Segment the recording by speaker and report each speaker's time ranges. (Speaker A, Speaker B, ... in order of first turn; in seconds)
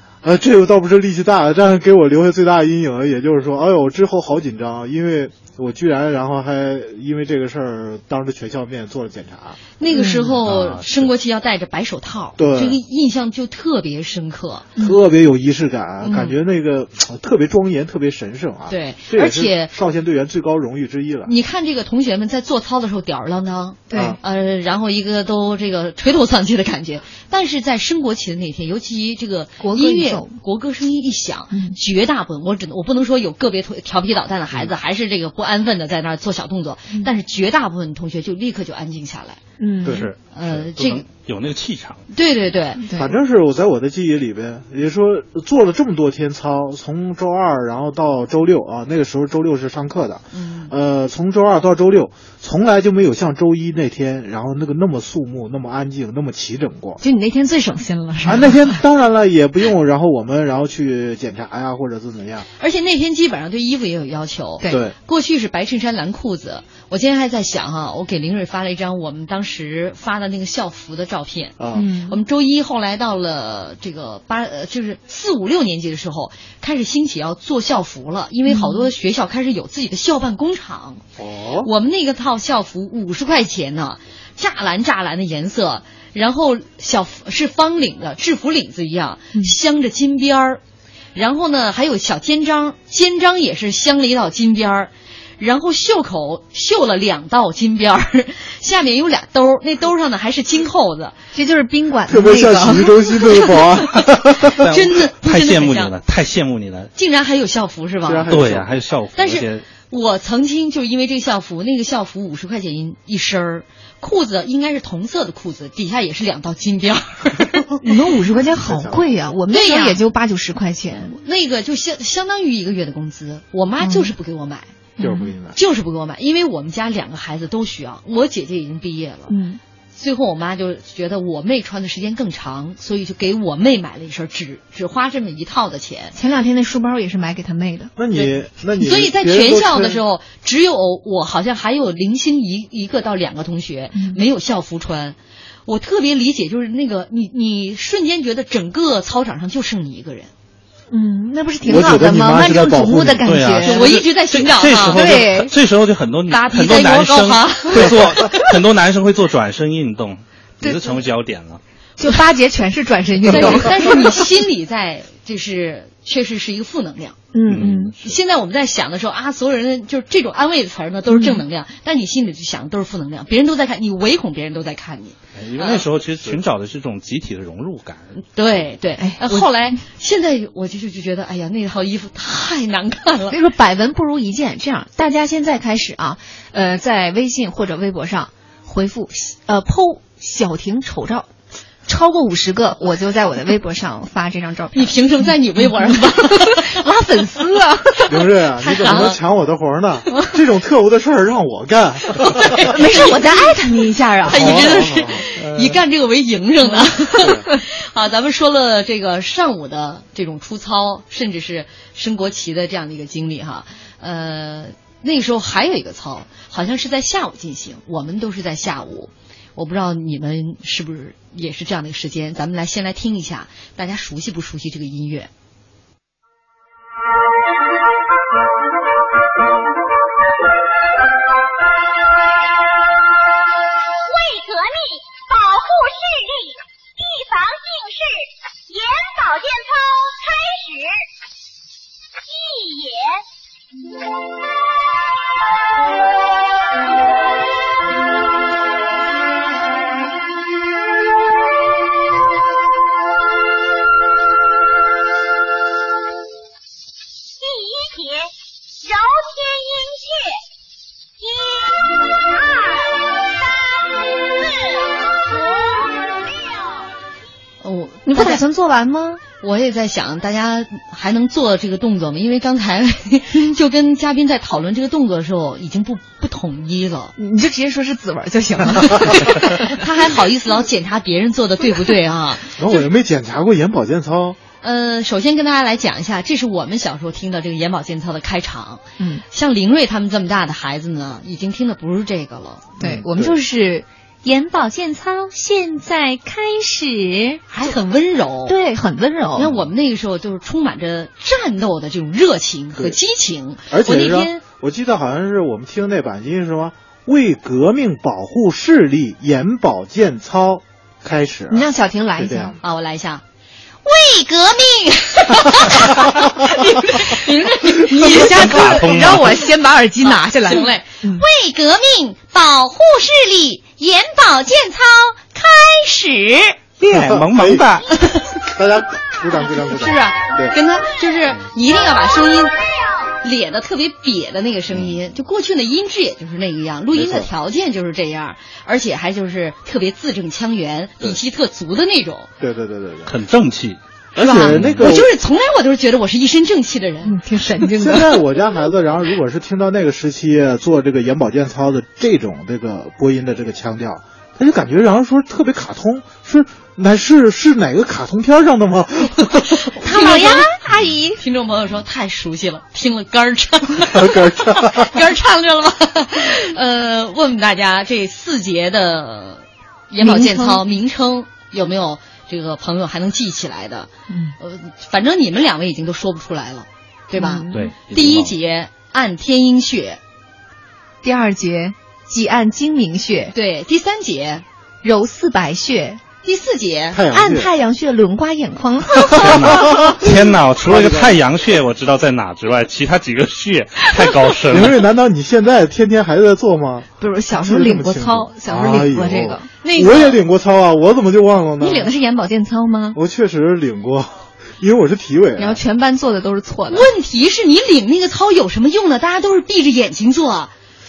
Speaker A: 0.2-9.6, 12.4-12.8, 14.8-21.3, 23.9-24.2, 39.8-40.1, 42.9-57.0, 58.2-62.5, 64.7-64.9, 71.6-71.8, 81.2-81.7, 102.1-104.6, 108.0-108.7, 118.5-119.1, 125.0-125.6, 138.0-140.0, 151.7-153.2, 198.1-202.7, 204.2-205.2, 207.2-207.4, 282.6-284.4, 292.8-293.4, 303.7-312.6, 326.9-330.6, 336.9-337.3, 342.4-343.1, 344.1-345.1, 347.7-359.7, 363.9-364.9, 386.9-387.5, 389.2-391.2, 394.5-401.9, 402.9-405.6
Speaker B: 9.8-14.7, 16.0-16.3, 18.7-19.7, 21.2-39.4, 40.3-41.0, 42.1-42.8, 50.3-50.7, 62.6-81.0, 81.6-90.6, 91.1-101.2, 104.5-105.9, 107.0-108.3, 109.1-117.6, 119.5-120.0, 121.1-124.7, 125.5-129.3, 129.9-136.1, 138.1-150.3, 153.6-155.0, 156.3-158.4, 163.2-167.2, 168.0-175.8, 178.3-183.3, 194.7-196.8, 198.8-199.2, 202.3-203.5, 204.2-225.3, 267.6-268.4, 269.4-277.1, 279.1-282.8, 284.6-292.7, 297.5-298.6, 299.4-304.4, 312.6-313.2, 313.8-318.9, 320.0-326.6, 327.9-328.3, 329.6-332.5, 333.2-342.3, 344.1-347.1, 359.8-360.6, 361.2-380.0, 383.3-384.4, 386.2-387.0, 399.6-400.2, 406.7-410.5
Speaker C: 9.9-10.3, 23.9-24.2, 29.6-30.4, 31.5-31.8, 39.6-40.1, 42.8-43.1, 57.0-58.8, 71.7-72.2, 78.5-78.9, 101.3-103.6, 117.8-121.2, 123.8-124.1, 125.0-125.3, 129.3-129.6, 136.1-137.9, 143.9-144.2, 150.9-154.0, 154.9-155.5, 160.6-161.0, 162.0-164.3, 167.3-167.9, 171.1-171.4, 179.0-179.5, 183.3-191.3, 191.8-199.1, 202.6-204.7, 206.6-207.6, 268.0-269.2, 277.2-279.8, 289.0-289.2, 292.8-297.7, 298.5-299.6, 311.5-312.5, 317.9-321.2, 347.0-348.2, 359.8-361.2, 370.0-370.6, 374.1-374.4, 377.1-377.7, 381.0-383.3, 384.8-386.0, 387.1-389.8, 397.0-399.5, 401.6-403.0, 405.4-406.9
Speaker D: 10.4-11.1, 39.9-42.0, 104.5-106.9, 108.3-109.7, 153.2-161.6, 167.5-168.2, 175.3-178.1, 205.4-205.8, 318.1-319.4, 326.8-327.9, 343.1-343.8, 344.5-344.9, 377.5-378.3, 389.1-394.8
Speaker E: 234.0-241.0, 242.2-243.2, 257.4-260.4, 261.2-263.2, 264.3-266.9